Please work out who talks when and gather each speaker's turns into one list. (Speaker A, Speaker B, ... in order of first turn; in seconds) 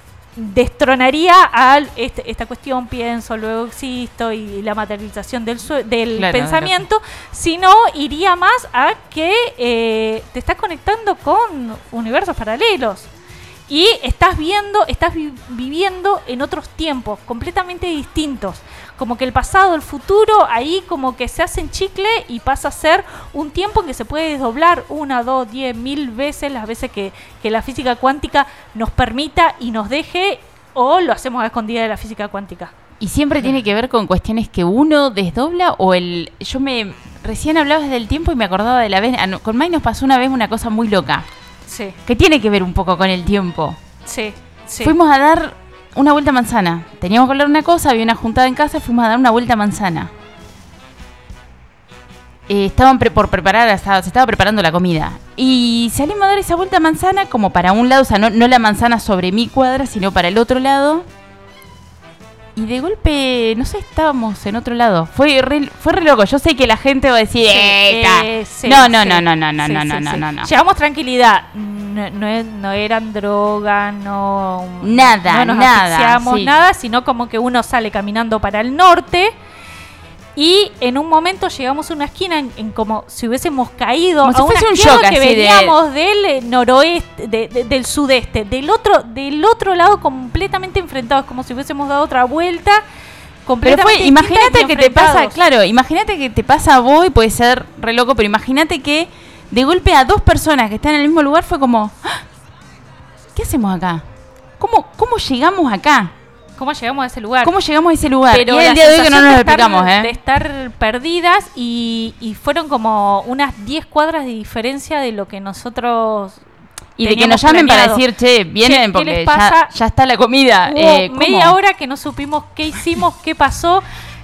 Speaker A: 0.4-13.1, 13.7-32.7, 41.7-42.0, 44.1-45.0, 67.5-79.3, 80.4-92.8, 93.5-95.4, 106.6-107.5, 108.3-116.4, 117.0-118.0, 118.6-119.7, 120.7-123.8
Speaker B: 6.2-6.8, 33.0-41.3, 42.1-43.8, 44.8-50.1, 52.5-61.0, 62.6-70.5, 74.8-76.5, 84.2-85.8, 93.7-102.2, 103.4-104.0, 104.6-106.1, 107.4-110.1, 117.0-121.6